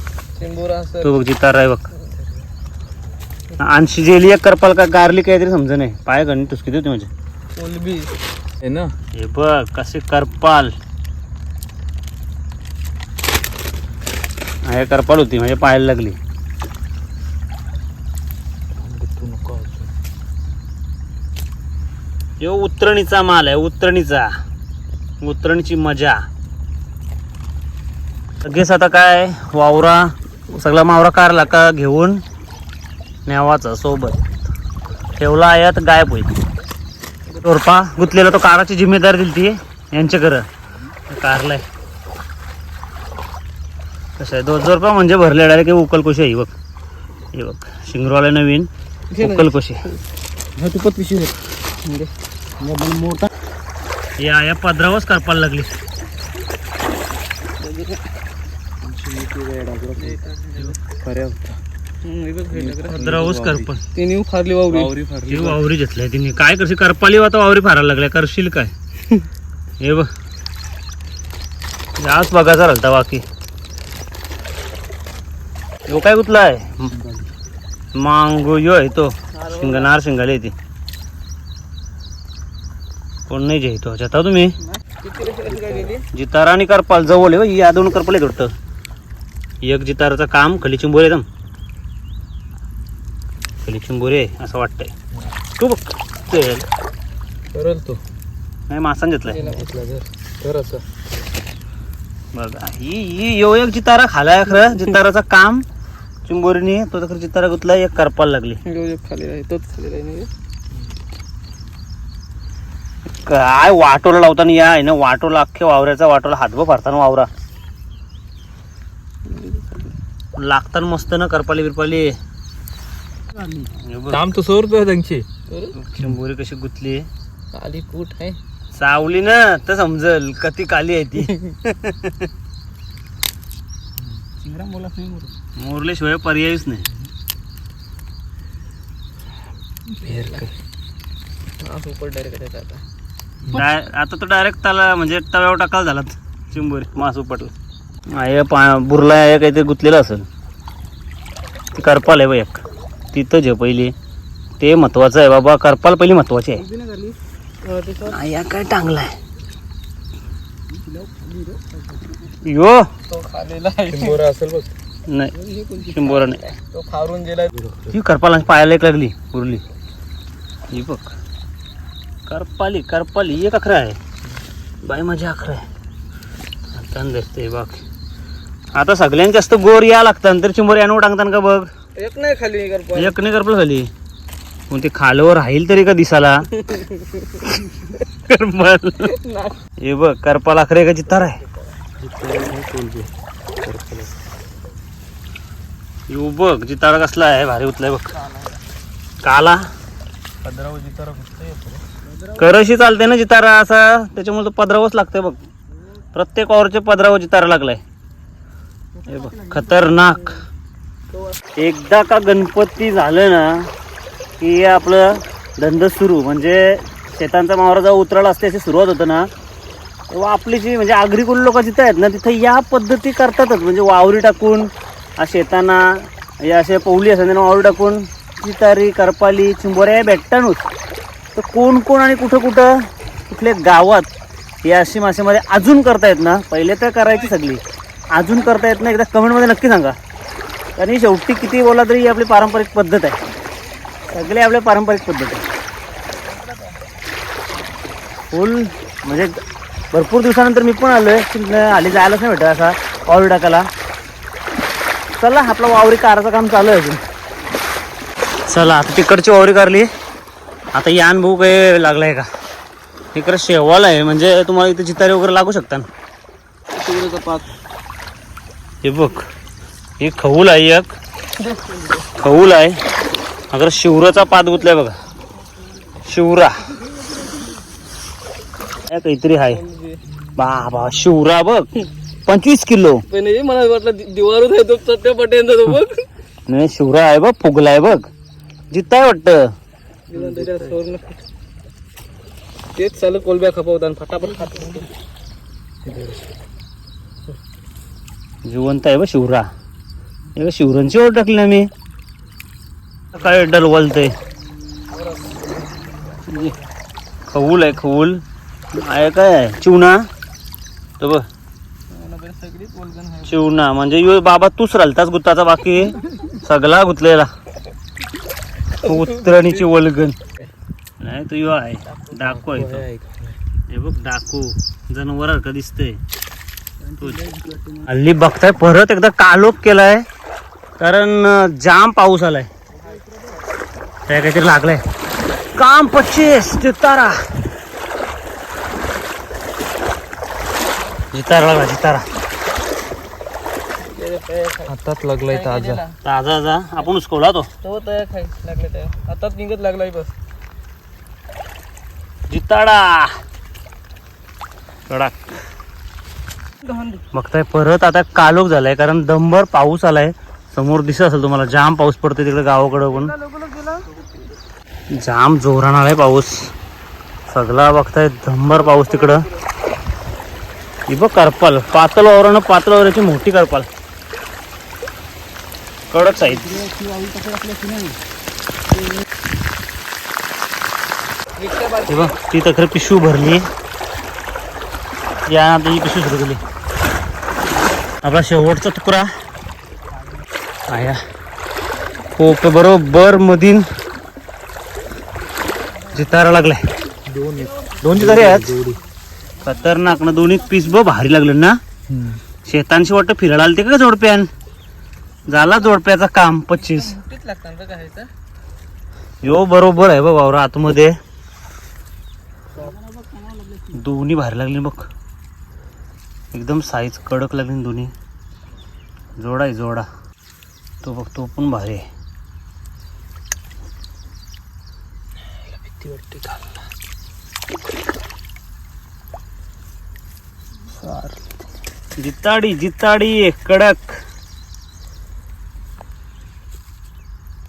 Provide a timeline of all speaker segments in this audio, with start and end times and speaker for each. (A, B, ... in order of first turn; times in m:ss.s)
0:00.4-0:01.2 A
0:01.0-0:01.8 B
0:03.6-0:07.1 B
0:07.5-0:08.1 A
0:08.6-0:08.9 C
0:09.1-0:10.7 B
0:14.6-0:16.2 B
0:18.8-0:19.9 C
0:22.4-0:24.3 B
0:25.2-0:26.2 B
0:28.4-0:32.2 B
0:33.2-0:34.4 B
0:35.2-0:36.3 B
0:37.4-0:40.5 B
0:41.1-0:41.6 B
0:44.2-0:46.5 B
0:47.3-0:49.8 B
0:49.1-0:50.0 A
0:50.6-0:51.3 C
0:51.8-0:52.1 A
0:52.6-0:53.3 B
0:54.2-0:55.7 B
0:57.6-0:58.1 A
0:58.8-1:00.2 C
0:59.9-1:00.8 A
1:00.7-1:01.6 C
1:02.0-1:03.1 A
1:02.5-1:03.7 C
1:02.9-1:03.8 B
1:03.9-1:05.0 A
1:04.7-1:05.6 C
1:05.3-1:08.7 B
1:09.8-1:10.1 B
1:12.0-1:13.2 B
1:15.9-1:16.9 B
1:16.9-1:17.3 C
1:17.9-1:20.5 B
1:19.3-1:19.9 A
1:23.3-1:24.6 B
1:24.7-1:26.1 A
1:26.1-1:28.5 B
1:29.6-1:31.2 B
1:33.6-1:34.9 B
1:35.6-1:36.7 B
1:37.5-1:38.0 C
1:38.7-1:39.4 B
1:39.2-1:40.0 A
1:39.3-1:40.8 C
1:42.3-1:45.6 B
1:46.2-1:48.6 B
1:48.6-1:50.3 A
1:53.1-1:57.3 B
1:59.2-2:00.0 A
2:00.4-2:02.2 B
2:03.7-2:04.2 B
2:04.1-2:05.3 C
2:05.5-2:05.8 A
2:05.7-2:07.1 B
2:07.5-2:08.4 A
2:08.7-2:12.3 B
2:14.4-2:15.3 A
2:15.6-2:16.8 B
2:20.0-2:20.5 C
2:20.0-2:20.5 A
2:21.6-2:22.8 A
2:23.5-2:27.5 B
2:28.1-2:30.3 B
2:31.7-2:32.6 B
2:33.1-2:33.9 B
2:34.6-2:36.6 B
2:36.6-2:38.2 A
2:38.1-2:39.2 B
2:40.8-2:42.2 A
2:42.4-2:42.9 B
2:43.1-2:44.2 A
2:43.9-2:44.7 C
2:45.1-2:46.4 B
2:45.3-2:47.5 A
2:47.5-2:48.0 C
2:47.9-2:49.6 B
2:50.7-2:51.2 B
2:52.3-2:54.0 B
2:54.8-2:55.6 B
2:56.7-2:57.8 B
2:58.7-3:01.7 B
3:02.0-3:03.3 A
3:02.9-3:03.9 B
3:04.7-3:06.6 B
3:06.6-3:07.5 A
3:07.4-3:09.1 B
3:09.0-3:09.6 A
3:09.8-3:11.4 B
3:12.0-3:14.1 C
3:16.1-3:18.2 B
3:18.1-3:18.6 A
3:19.2-3:19.7 B
3:20.4-3:21.8 C
3:22.2-3:22.5 A
3:22.4-3:25.4 B
3:26.1-3:27.8 B
3:29.0-3:30.4 A
3:29.0-3:30.4 B
3:31.6-3:33.7 B
3:34.4-3:39.3 B
3:40.1-3:50.7 B
3:51.3-3:54.1 B
3:54.6-3:57.6 B
3:58.1-4:00.0 B
4:00.8-4:03.2 B
4:04.1-4:05.5 B
4:06.2-4:06.9 A
4:08.3-4:09.4 B
4:09.9-4:13.7 B
4:15.2-4:17.0 B
4:18.5-4:19.9 B
4:20.7-4:22.3 B
4:23.1-4:25.9 B
4:26.7-4:27.5 A
4:28.8-4:29.2 B
4:30.0-4:30.9 B
4:31.4-4:32.1 A
4:32.1-4:32.8 B
4:33.5-4:34.9 B
4:36.0-4:36.7 B
4:38.9-4:39.6 B
4:39.5-4:40.0 A
4:40.4-4:43.0 B
4:43.1-4:46.1 A
4:46.5-4:48.0 B
4:48.7-4:49.5 B
4:50.1-4:51.2 A
4:50.1-4:50.8 C
4:52.7-4:54.9 A
4:55.8-4:56.3 C
4:58.4-4:59.5 B
5:00.4-5:01.7 B
5:03.1-5:04.1 B
5:04.9-5:06.7 A
5:06.3-5:06.6 B
5:07.3-5:10.0 B
5:11.0-5:11.2 B
5:11.9-5:13.4 A
5:13.2-5:17.3 B
5:18.7-5:20.2 B
5:18.8-5:19.5 A
5:21.0-5:22.8 B
5:22.1-5:23.4 C
5:23.7-5:26.0 B
5:26.9-5:27.8 A
5:27.9-5:30.0 B
5:30.8-5:32.5 B
5:34.1-5:34.8 B
5:35.5-5:37.2 B
5:41.1-5:42.0 B
5:43.8-5:44.7 A
5:44.7-5:45.8 C
5:45.2-5:46.0 A
5:46.0-5:47.5 B
5:47.6-5:50.1 A
5:52.3-5:53.2 B
5:54.9-5:55.4 B
5:56.6-5:57.0 A
5:57.1-6:03.1 B
6:02.9-6:04.0 A
6:04.9-6:06.5 B
6:07.3-6:09.3 B
6:08.6-6:09.4 A
6:10.9-6:13.7 B
6:15.9-6:16.7 B
6:16.7-6:17.9 A
6:21.4-6:22.2 A
6:21.9-6:23.5 B
6:25.3-6:26.4 B
6:28.0-6:29.1 B
6:30.7-6:31.0 B
6:32.2-6:33.7 B
6:35.9-6:36.6 B
6:37.0-6:38.8 C
6:37.8-6:38.6 B
6:39.4-6:41.6 B
6:41.9-6:42.2 C
6:42.4-6:44.3 B
6:45.3-6:47.0 B
6:46.5-6:48.1 A
6:49.2-6:51.0 B
6:52.5-6:53.7 A
6:53.7-6:54.9 B
6:56.3-6:57.9 B
6:59.2-6:59.9 B
7:00.8-7:01.8 B
7:05.6-7:06.5 C
7:10.7-7:11.2 A
7:12.0-7:14.0 B